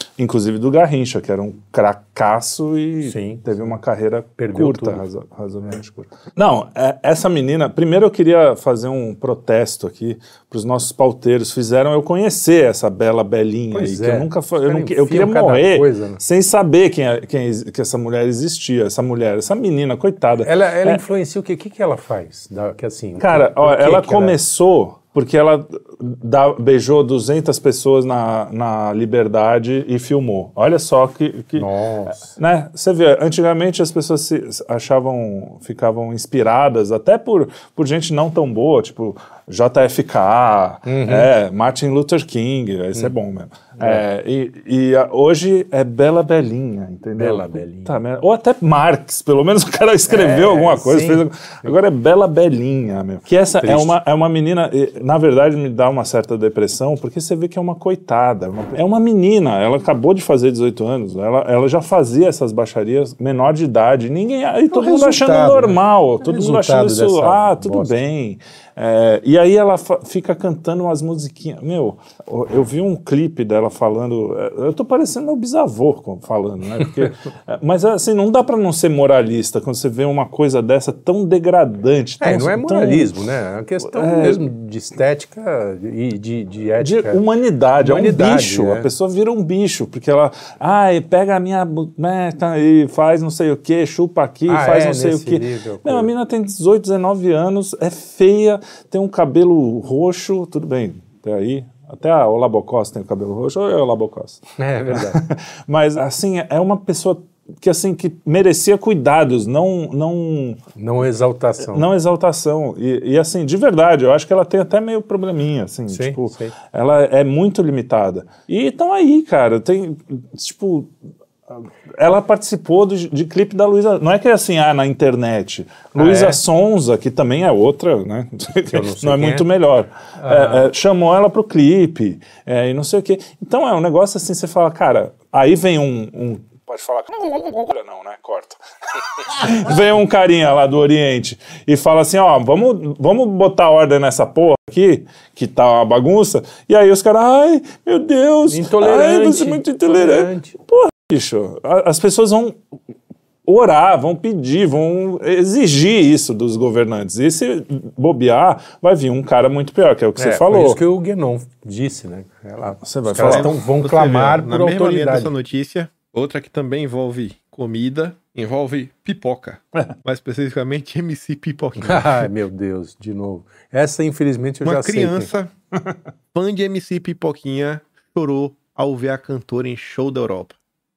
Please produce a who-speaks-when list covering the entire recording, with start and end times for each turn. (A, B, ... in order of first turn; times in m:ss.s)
0:00.2-0:21.0 A
0:03.0-0:03.5 B
0:04.4-0:05.0 B
0:13.7-0:16.2 B
0:20.4-0:24.4 B
0:23.2-1:23.1 A
0:31.6-0:32.4 B
0:40.9-0:41.3 B
0:43.8-0:44.0 B
0:47.2-0:48.0 B
0:50.1-0:51.2 B
0:53.6-0:54.0 B
1:04.7-1:07.9 B
1:22.2-1:27.2 B
1:23.8-1:24.4 A
1:26.8-1:50.6 A
1:27.8-1:28.9 B
1:34.5-1:36.1 B
1:44.6-1:45.2 B
1:50.8-1:51.9 B
1:51.7-2:00.9 A
1:55.9-1:56.5 B
2:01.5-2:32.6 A
2:06.0-2:06.4 B
2:08.7-2:09.5 B
2:10.2-2:10.7 B
2:28.5-2:30.6 B
2:33.4-2:40.8 A
2:40.2-2:45.3 B
2:42.8-2:43.5 A
2:43.2-2:52.3 C
2:51.8-2:55.3 B
2:54.6-2:55.5 C
2:56.3-3:00.6 C